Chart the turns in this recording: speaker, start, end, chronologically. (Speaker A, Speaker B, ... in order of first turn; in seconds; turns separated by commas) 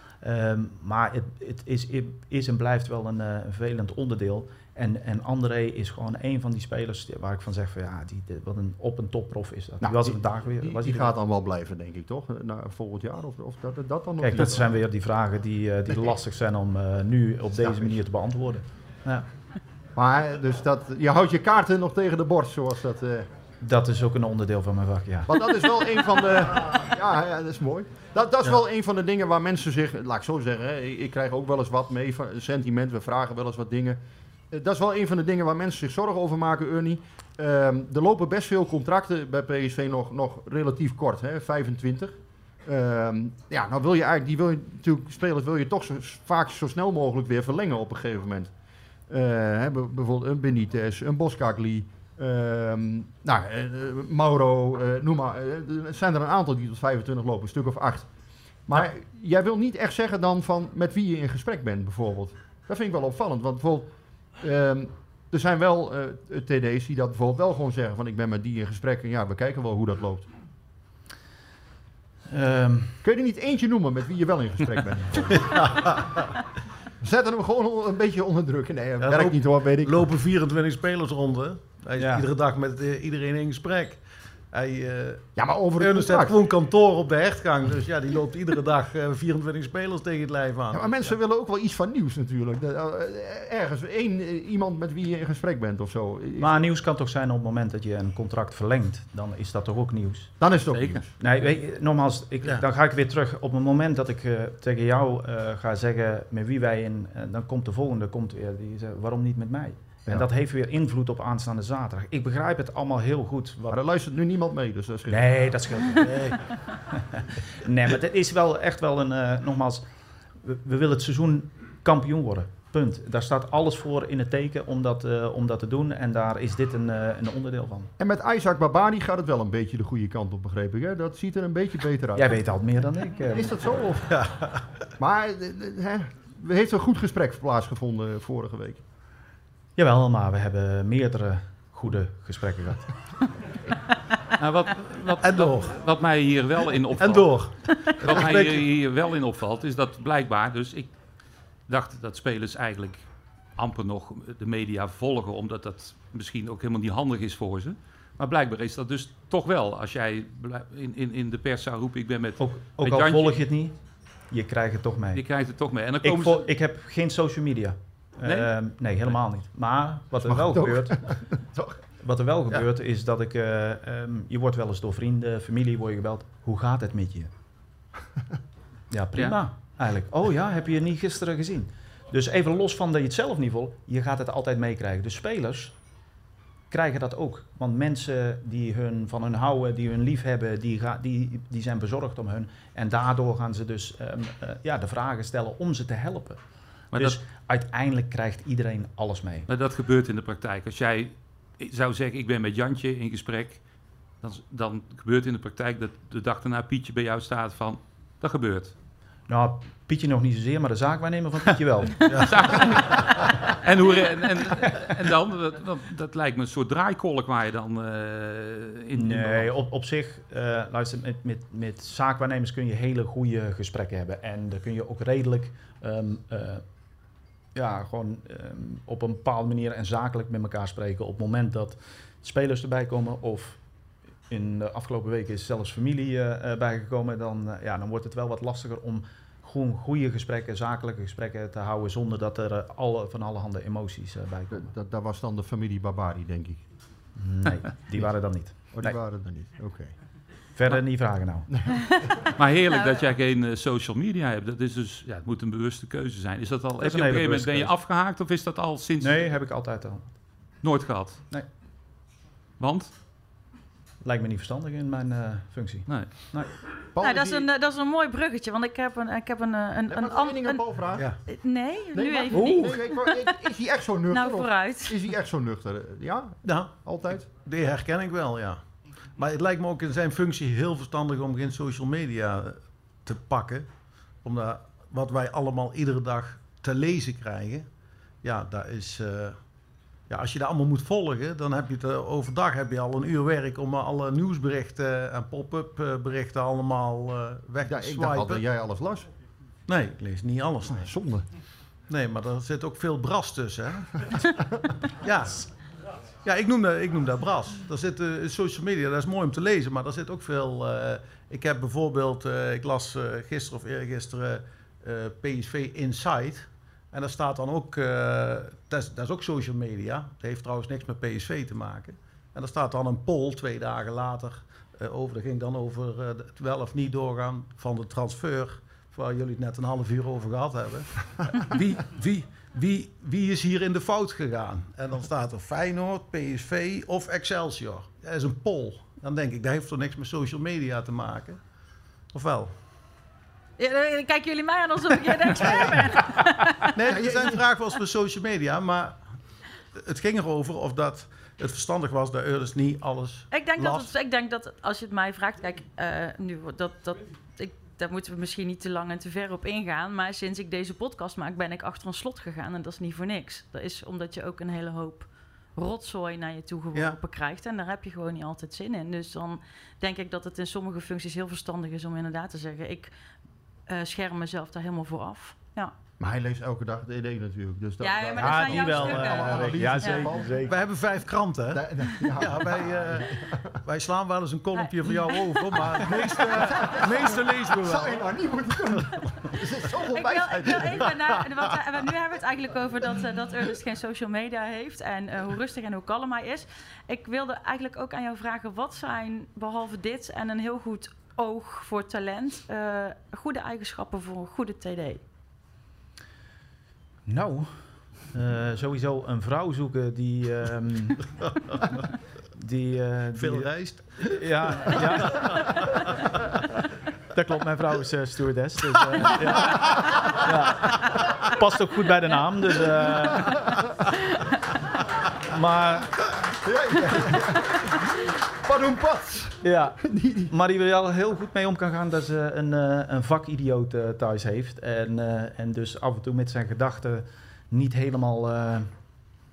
Speaker A: 0.2-11.1, Speaker B: 9.8-14.7, Speaker A: 14.2-19.2, Speaker B: 17.5-18.0, Speaker B: 19.9-23.3, Speaker A: 23.6-25.4, Speaker B: 25.3-34.0, Speaker B: 34.5-48.5, Speaker B: 49.1-58.1, Speaker B: 58.7-63.9, Speaker B: 64.4-70.3, Speaker A: 72.3-73.0, Speaker B: 73.0-75.6, Speaker C: 75.4-76.0, Speaker B: 77.0-80.1, Speaker C: 79.0-91.2, Speaker A: 82.0-82.2, Speaker B: 85.3-86.3, Speaker B: 90.7-96.5, Speaker A: 96.4-100.3, Speaker B: 100.4-101.1, Speaker D: 100.7-101.0, Speaker A: 101.2-113.8, Speaker B: 113.7-116.0, Speaker A: 115.1-116.4, Speaker C: 116.0-116.4, Speaker A: 116.9-119.9, Speaker A: 120.4-127.9, Speaker B: 128.0-132.3, Speaker A: 132.1-133.6, Speaker B: 133.3-134.2, Speaker C: 134.1-134.6, Speaker B: 135.0-138.8, Speaker A: 139.8-142.8, Speaker D: 144.4-150.9, Speaker C: 145.2-145.8, Speaker C: 147.0-148.6, Speaker D: 151.7-153.0, Speaker D: 153.6-163.4, Speaker A: 162.4-163.8, Speaker A: 164.3-165.2, Speaker D: 165.1-166.5, Speaker A: 166.0-171.0, Speaker D: 168.2-168.5, Speaker B: 170.2-171.8, Speaker A: 172.0-177.3, Speaker A: 178.9-185.7, Speaker A: 186.7-196.4, Speaker D: 196.9-197.2, Speaker A: 196.9-199.5, Speaker D: 199.5-203.6, Speaker D: 204.2-208.7, Speaker A: 209.3-212.0, Speaker C: 212.1-213.2, Speaker D: 212.3-219.5, Speaker A: 218.9-226.6, Speaker A: 227.5-233.6, Speaker A: 234.3-244.7, Speaker B: 244.5-246.6, Speaker A: 247.2-249.0, Speaker B: 248.7-249.9, Speaker A: 250.6-251.5, Speaker B: 251.5-251.9, Speaker D: 252.4-259.3, Speaker E: 252.7-253.1, Speaker A: 256.8-257.7, Speaker A: 259.0-260.1, Speaker D: 260.6-261.2, Speaker D: 262.6-262.9, Speaker A: 264.0-266.5, Speaker B: 266.9-267.4, Speaker E: 267.0-270.6, Speaker B: 269.9-271.1, Speaker E: 271.2-273.1, Speaker B: 271.9-277.3, Speaker A: 272.3-272.7, Speaker E: 274.1-274.9, Speaker C: 276.4-278.6, Speaker C: 279.2-283.7, Speaker C: 284.2-287.7, Speaker C: 288.2-289.4, Speaker C: 290.1-298.4, Speaker B: 297.6-299.1, Speaker C: 299.7-300.9, Speaker B: 300.7-301.2, Speaker C: 301.9-303.9, Speaker C: 305.0-305.5, Speaker C: 306.2-341.4, Speaker C: 342.1-342.5, Speaker E: 343.6-346.7, Speaker C: 345.4-345.7, Speaker C: 346.7-349.1, Speaker C: 349.8-353.9, Speaker E: 353.3-372.9, Speaker E: 373.7-375.7, Speaker B: 376.0-380.4, Speaker E: 377.8-380.1, Speaker A: 378.1-380.6, Speaker C: 380.4-383.1, Speaker B: 381.5-383.5, Speaker C: 383.6-388.1, Speaker E: 384.5-385.2, Speaker B: 385.6-390.9, Speaker E: 389.9-405.0, Speaker A: 407.1-407.6, Speaker A: 408.1-411.1, Speaker A: 412.3-415.4, Speaker C: 413.2-415.5, Speaker A: 417.1-423.6, Speaker A: 425.3-426.0, Speaker B: 426.4-430.3, Speaker A: 429.4-438.7